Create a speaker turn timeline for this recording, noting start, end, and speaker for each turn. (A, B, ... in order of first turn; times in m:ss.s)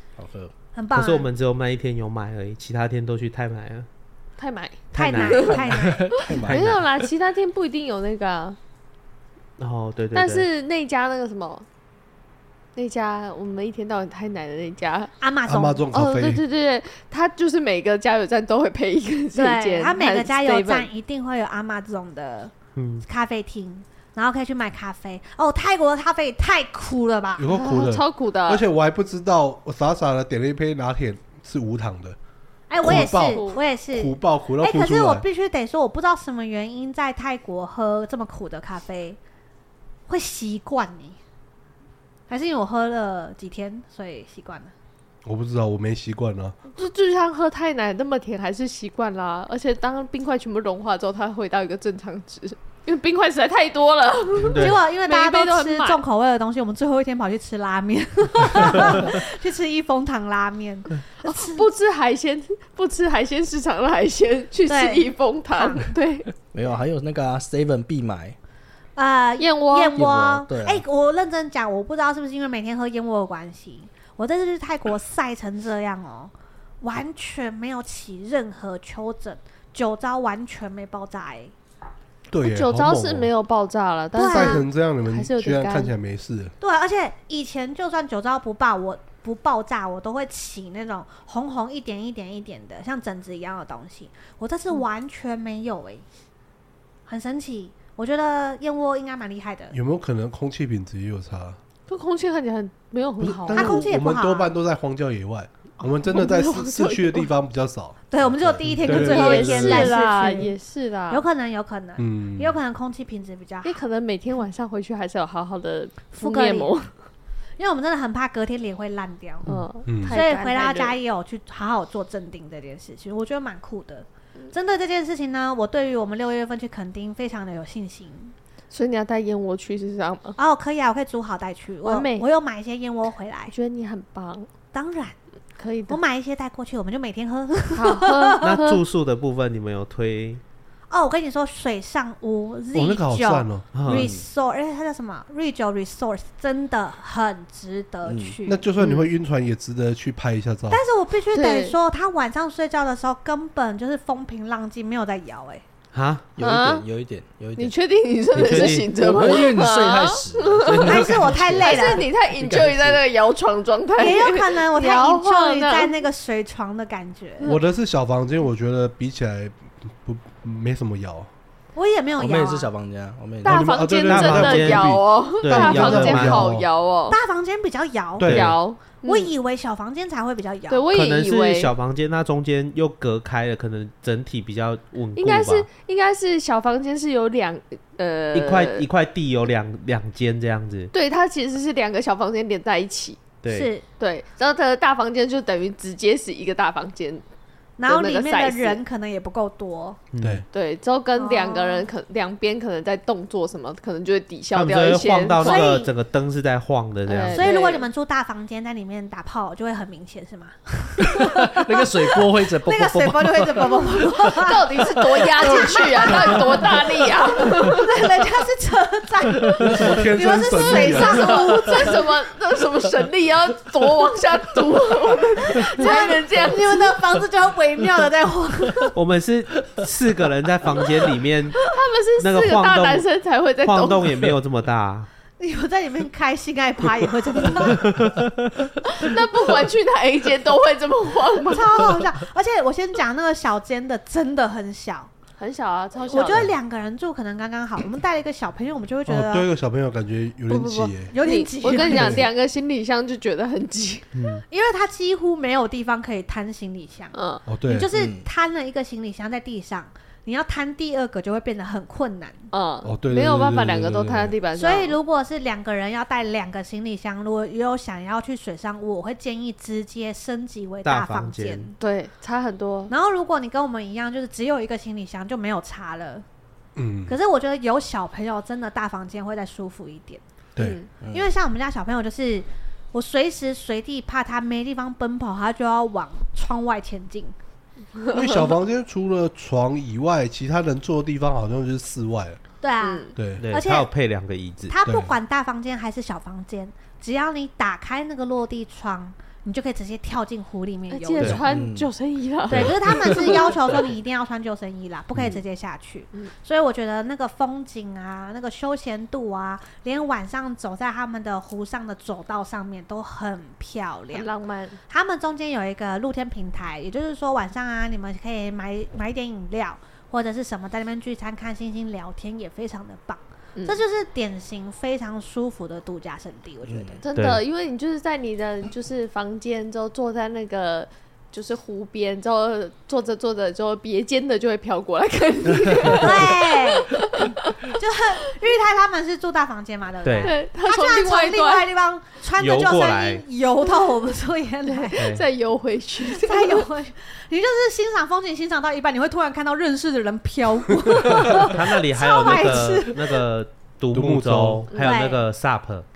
0:00.2-0:00.5 A
0:00.8-0:01.3 B
0:00.9-0:03.9 C
0:04.4-0:05.5 D
0:04.9-0:06.1 B
0:04.9-0:05.6 C
0:05.5-0:07.0 A
0:06.2-0:08.6 D
0:09.6-0:10.5 C
0:10.1-0:11.7 D
0:12.8-0:15.1 D
0:15.2-0:15.9 B
0:15.5-0:16.4 E
0:15.9-0:20.9 D
0:19.4-0:22.5 B
0:22.8-0:23.0 C
0:23.0-0:27.5 B
0:27.4-0:32.2 E
0:27.5-0:28.7 D
0:32.7-0:39.2 B
0:32.8-0:35.2 E
0:32.9-0:33.6 D
0:40.1-0:41.2 B
0:42.3-0:44.7 B
0:45.2-0:46.6 E
0:46.8-0:56.0 D
0:54.4-0:54.8 C
0:54.6-1:01.7 B
1:01.2-1:06.3 D
1:04.7-1:05.9 B
1:06.4-1:08.4 A
1:09.0-1:21.5 B
1:09.4-1:10.1 D
1:10.0-1:10.8 A
1:22.3-1:23.3 E
1:22.4-1:25.9 D
1:24.2-1:24.6 B
1:24.3-1:26.5 E
1:26.6-1:36.0 B
1:37.1-1:39.8 B
1:39.7-1:41.6 E
1:41.9-1:43.9 D
1:43.2-1:49.9 E
1:43.5-1:44.5 B
1:46.0-1:47.3 D
1:48.1-1:50.5 B
1:48.9-1:51.2 D
1:51.1-1:53.8 B
1:52.0-1:52.6 E
1:53.6-1:56.9 D
1:56.2-1:56.7 B
1:57.6-1:59.5 B
1:59.4-2:01.0 D
1:59.8-2:00.2 E
2:00.1-2:08.3 B
2:08.7-2:10.4 D
2:10.4-2:13.5 B
2:11.8-2:12.3 D
2:13.5-2:14.5 D
2:14.7-2:15.2 B
2:15.6-2:16.0 D
2:15.9-2:18.4 B
2:17.7-2:18.8 D
2:18.4-2:20.4 C
2:20.9-2:28.6 B
2:22.7-2:23.7 E
2:23.7-2:24.1 C
2:23.9-2:24.3 A
2:28.0-2:28.4 A
2:28.5-2:30.8 E
2:30.7-2:35.6 B
2:31.3-2:31.8 D
2:35.9-2:36.3 C
2:36.4-2:37.8 A
2:36.4-2:36.9 D
2:37.6-2:45.9 D
2:38.4-2:38.9 C
2:38.4-2:43.0 A
2:40.8-2:42.1 B
2:44.0-2:47.5 B
2:47.4-2:51.3 E
2:51.8-2:52.7 B
2:52.2-2:53.8 A
2:53.4-2:56.7 E
2:53.4-2:57.2 D
2:54.0-2:56.5 C
2:57.1-2:58.4 B
2:58.2-2:58.6 E
2:58.2-2:58.5 C
2:58.3-2:59.3 D
2:59.0-3:00.9 B
3:00.7-3:01.7 D
3:00.9-3:05.7 C
3:05.2-3:08.9 D
3:08.3-3:10.9 C
3:10.9-3:13.4 D
3:13.4-3:13.7 C
3:13.5-3:13.8 B
3:14.0-3:17.2 D
3:17.8-3:20.0 B
3:17.9-3:18.8 D
3:20.1-3:20.4 C
3:20.5-3:25.7 D
3:21.2-3:21.9 B
3:24.5-3:27.5 C
3:25.4-3:25.9 B
3:27.1-3:27.9 D
3:27.3-3:41.9 B
3:31.1-3:33.8 A
3:34.1-3:37.9 D
3:39.6-3:41.5 E
3:40.7-3:47.0 D
3:45.5-3:48.9 B
3:49.0-3:51.6 C
3:51.5-3:54.2 D
3:52.2-3:53.1 C
3:53.6-3:55.1 C
3:55.4-3:57.9 B
3:57.8-3:58.3 C
3:58.9-4:01.7 D
4:01.5-4:05.1 B
4:05.4-4:06.5 D
4:06.1-4:09.5 B
4:09.1-4:11.2 E
4:10.5-4:12.2 B
4:11.2-4:14.1 D
4:11.8-4:12.3 E
4:14.2-4:14.4 C
4:14.5-4:22.5 B
4:17.1-4:17.5 D
4:17.5-4:17.9 E
4:17.9-4:18.3 A
4:22.5-4:25.0 D
4:22.8-4:24.3 E
4:24.6-4:31.8 B
4:30.8-4:31.7 C
4:31.8-4:32.9 D
4:32.9-4:36.2 B
4:36.8-4:37.2 E
4:37.1-4:40.2 B
4:40.6-4:40.9 D
4:41.0-4:41.3 A
4:41.1-4:47.4 B
4:48.1-4:52.4 E
4:52.6-4:53.9 B
4:52.8-4:53.1 D
4:53.2-4:53.4 E
4:53.4-4:54.8 C
4:54.7-5:01.4 B
4:54.9-4:55.1 E
5:00.9-5:03.7 D
5:01.4-5:01.9 A
5:02.5-5:14.3 B
5:02.6-5:03.0 E
5:14.1-5:14.8 D
5:14.9-5:27.0 B
5:26.6-5:27.0 A
5:27.0-5:37.7 D
5:27.2-5:27.4 C
5:35.9-5:36.9 B
5:37.7-5:45.0 B
5:40.0-5:40.4 C
5:40.2-5:41.7 D
5:42.4-5:43.2 C
5:44.7-5:46.7 D
5:45.0-5:45.2 C
5:46.1-5:53.2 B
5:51.4-5:55.9 C
5:53.9-5:54.7 E
5:54.7-5:55.1 D
5:54.8-5:55.2 B